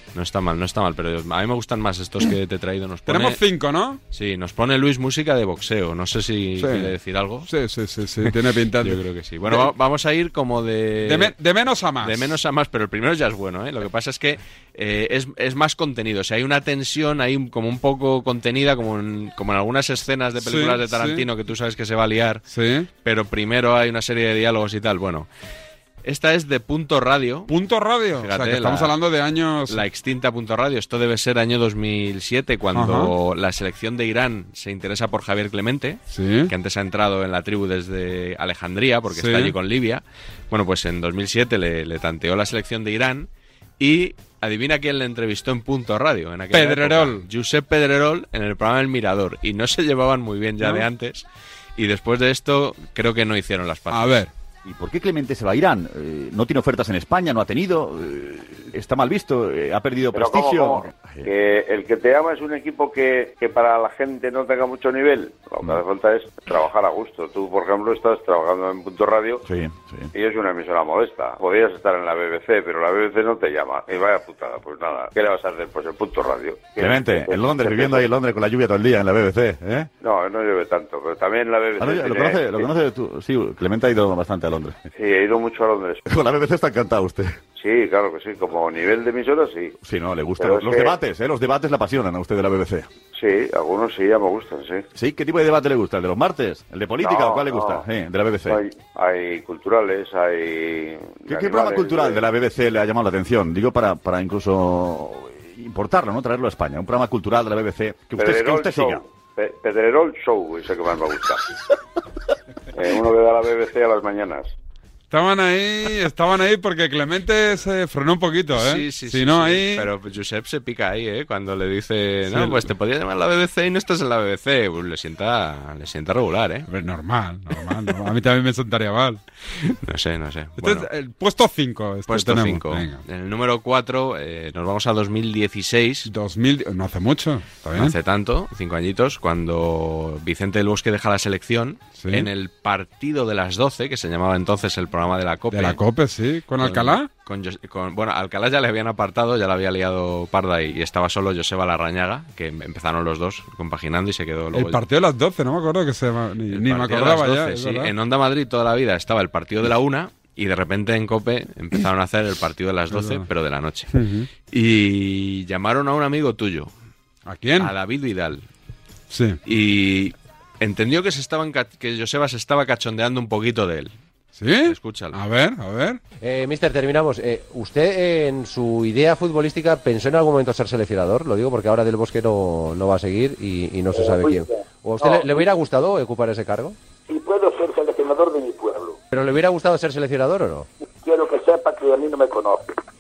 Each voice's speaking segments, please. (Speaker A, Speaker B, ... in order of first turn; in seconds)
Speaker A: 0.1-3.4, 4.1-7.5, 8.2-11.3, 12.0-22.4, 23.0-25.3, 26.0-27.5, 28.2-28.9, 29.7-43.3, 43.8-51.3, 51.8-54.2, 118.5-126.7, 129.8-130.9, 132.1-136.1, 137.8-145.8, 146.6-154.8, 156.5-163.9, 164.5-166.7, 167.6-168.5, 169.4-173.9, 174.7-175.2
Speaker B: 3.1-4.0, 6.6-6.9, 7.5-9.7, 11.0-12.3, 20.4-21.3, 22.5-22.9, 27.5-29.8, 32.7-33.1, 36.1-36.5, 39.1-39.6, 46.5-47.3, 50.6-50.9, 53.9-54.3, 115.1-119.9, 122.2-122.7, 126.7-129.2, 130.6-133.0, 136.1-138.0, 142.0-142.3, 145.5-147.1, 154.5-157.9, 162.9-163.3, 163.9-164.3, 167.3-167.7, 169.1-169.4, 174.4-176.0
Speaker C: 54.6-61.3, 69.4-70.1, 76.8-79.9, 81.8-84.8, 86.1-87.4, 89.8-92.9, 95.0-98.6, 101.3-109.0
Speaker D: 60.1-69.4, 70.2-78.1, 80.0-82.7, 85.0-86.0, 87.6-89.8, 90.4-91.0, 93.2-94.8, 97.0-97.8, 98.5-102.3, 108.2-111.4, 112.7-114.5
Speaker E: 176.2-186.8, 189.1-190.7
Speaker F: 183.9-185.4, 187.1-189.0, 191.0-192.7